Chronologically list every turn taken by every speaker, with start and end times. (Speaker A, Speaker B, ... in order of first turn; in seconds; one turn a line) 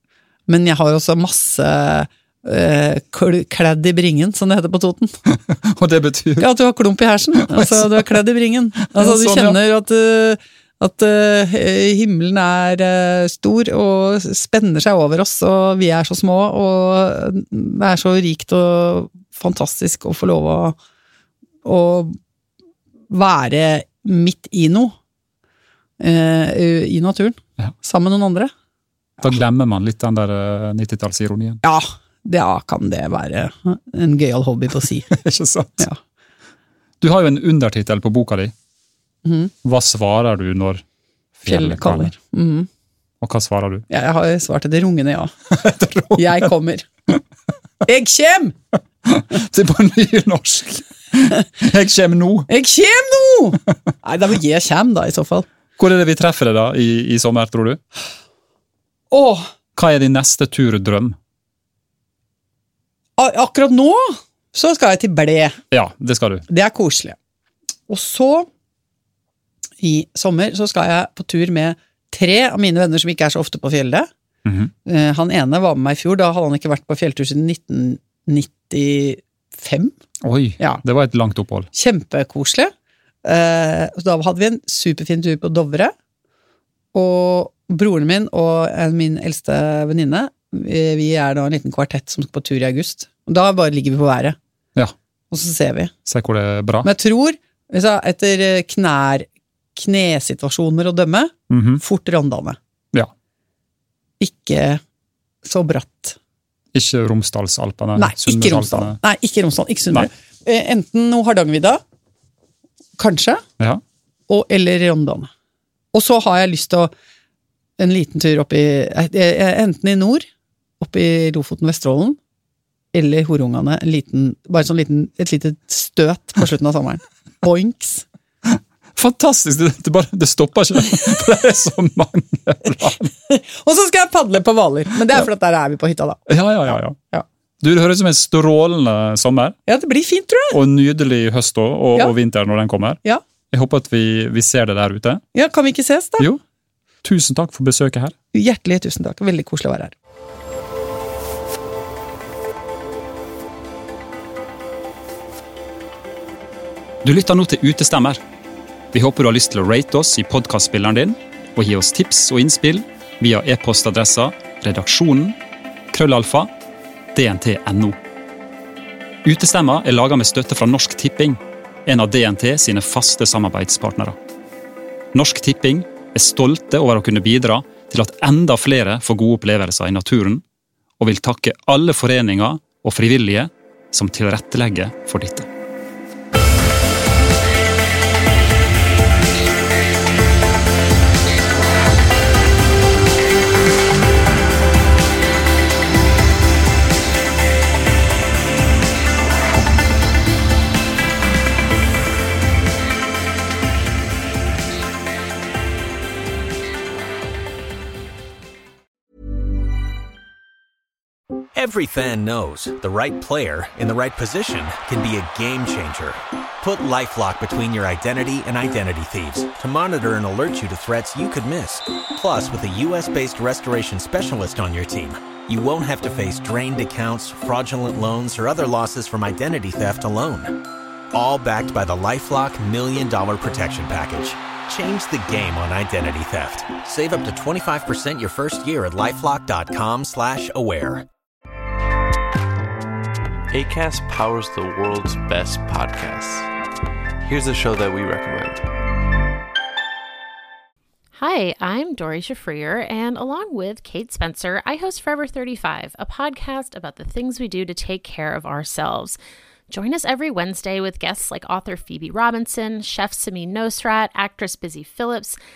Speaker A: 0.5-5.1
Speaker B: 5.3-6.5
Speaker A: 6.4-20.8
Speaker B: 7.4-8.2
Speaker B: 8.9-9.6
Speaker A: 21.6-22.2
Speaker A: 23.1-24.9
Speaker A: 26.0-28.5
Speaker B: 29.2-31.6
Speaker A: 31.6-35.1
Speaker B: 35.1-35.9
Speaker B: 37.0-38.5
Speaker A: 39.2-39.5
Speaker B: 39.6-40.8
Speaker B: 41.4-42.1
Speaker A: 41.5-42.7
Speaker B: 43.2-43.9
Speaker A: 43.9-45.3
Speaker B: 45.5-46.5
Speaker A: 46.1-46.9
Speaker A: 47.9-48.6
Speaker B: 49.0-52.5
Speaker A: 52.5-55.5
Speaker B: 55.8-57.8
Speaker A: 59.1-59.5
Speaker B: 59.8-61.2
Speaker A: 63.2-65.6
Speaker B: 65.7-66.5
Speaker A: 66.5-67.2
Speaker A: 67.9-68.5
Speaker A: 69.8-74.1
Speaker B: 74.5-74.7
Speaker A: 74.8-79.9
Speaker B: 80.2-81.7
Speaker A: 81.7-82.7
Speaker A: 83.2-85.9
Speaker A: 86.9-94.4
Speaker A: 95.3-95.9
Speaker B: 96.1-96.9
Speaker A: 96.8-102.6
Speaker B: 101.5-101.8
Speaker A: 104.2-104.8
Speaker A: 105.4-106.2
Speaker B: 106.7-109.0
Speaker A: 108.0-111.8
Speaker A: 113.0-113.4
Speaker A: 114.3-115.3
Speaker A: 115.9-116.9
Speaker A: 117.8-120.3
Speaker A: 120.8-122.2
Speaker A: 122.9-128.1
Speaker B: 128.5-133.1
Speaker A: 133.3-136.2
Speaker B: 136.3-137.0
Speaker B: 137.6-139.6
Speaker A: 139.7-140.6
Speaker B: 140.5-143.0
Speaker B: 143.5-145.2
Speaker A: 145.3-146.3
Speaker B: 147.0-148.2
Speaker A: 148.3-149.9
Speaker B: 157.0-158.2
Speaker B: 158.9-165.4
Speaker B: 165.9-166.5
Speaker B: 167.2-168.0
Speaker B: 169.2-174.2
Speaker B: 175.1-180.4
Speaker B: 181.0-185.5
Speaker C: 211.6-241.1
Speaker D: 243.5-246.5
Speaker D: 247.2-248.6
Speaker E: 251.2-259.2
Speaker E: 259.7-265.4